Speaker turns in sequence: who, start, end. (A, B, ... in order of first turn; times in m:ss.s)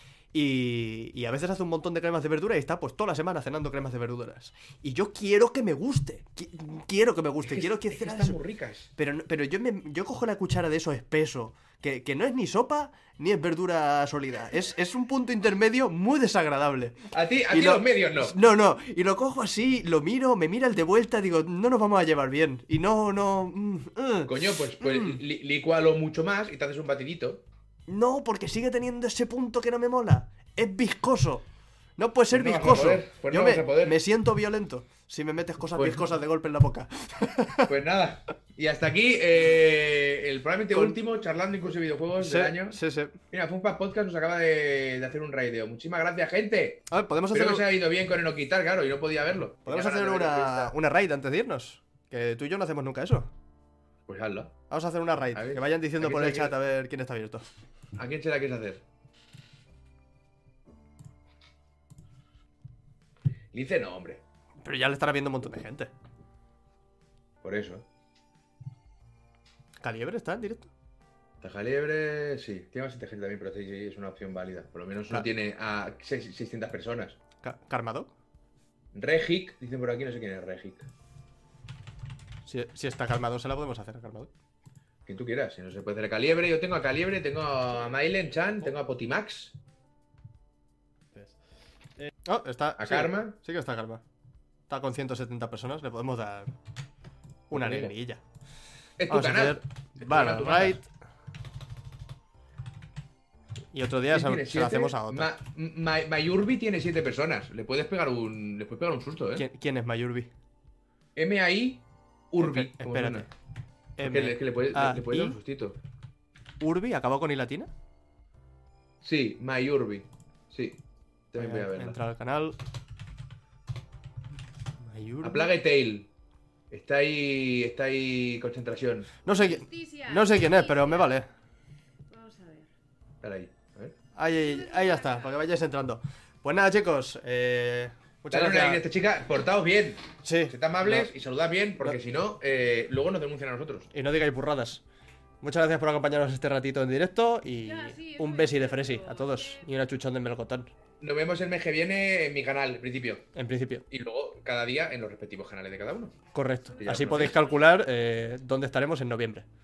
0:00.3-0:08.4 A
0:07.5-0:08.9 B
0:09.0-0:17.0 A
0:17.1-0:18.3 B
0:17.5-0:25.2 A
0:24.3-0:27.4 B
0:27.9-0:31.4 A
0:32.0-0:37.7 A
0:32.3-0:34.0 B
0:35.8-0:36.1 B
0:37.7-0:42.8 B
0:40.7-0:41.0 A
0:42.2-0:43.2 A
0:43.3-0:50.7 B
0:46.9-0:47.7 A
0:49.6-0:53.3 A
0:54.1-0:54.5 B
0:54.7-0:57.5 A
0:55.3-0:56.5 B
0:58.0-0:58.8 B
1:03.5-1:04.2 B
1:04.6-1:05.9 A
1:07.4-1:07.8 B
1:09.8-1:10.7 A
1:11.4-1:17.2 B
1:17.4-1:18.1 A
1:19.0-1:20.9 B
1:22.5-1:24.3 A
1:25.1-1:29.6 B
1:32.0-1:34.0 A
1:32.8-1:33.4 B
1:34.7-1:36.6 A
1:37.5-1:38.2 A
1:37.5-1:37.9 B
1:39.0-1:40.8 B
1:39.1-1:40.9 A
1:43.7-1:45.3 A
1:44.1-1:49.4 B
1:49.4-1:50.3 A
1:51.2-1:53.3 B
1:52.4-1:53.3 A
1:54.0-1:55.4 A
1:54.0-1:55.8 B
1:56.6-1:57.7 A
1:59.0-2:00.8 B
2:01.3-2:02.0 B
2:01.4-2:02.6 A
2:04.8-2:05.5 A
2:05.2-2:06.1 B
2:06.7-2:09.1 B
2:09.2-2:11.3 A
2:09.4-2:11.2 C
2:12.1-2:12.7 C
2:13.2-2:13.9 B
2:14.2-2:18.8 A
2:14.4-2:15.4 C
2:18.3-2:23.9 B
2:20.2-2:21.1 A
2:23.9-2:24.8 A
2:25.4-2:30.7 A
2:27.6-2:29.6 C
2:31.0-2:33.2 B
2:33.3-2:33.8 A
2:33.9-2:36.2 B
2:36.3-2:39.4 A
2:36.8-2:37.4 B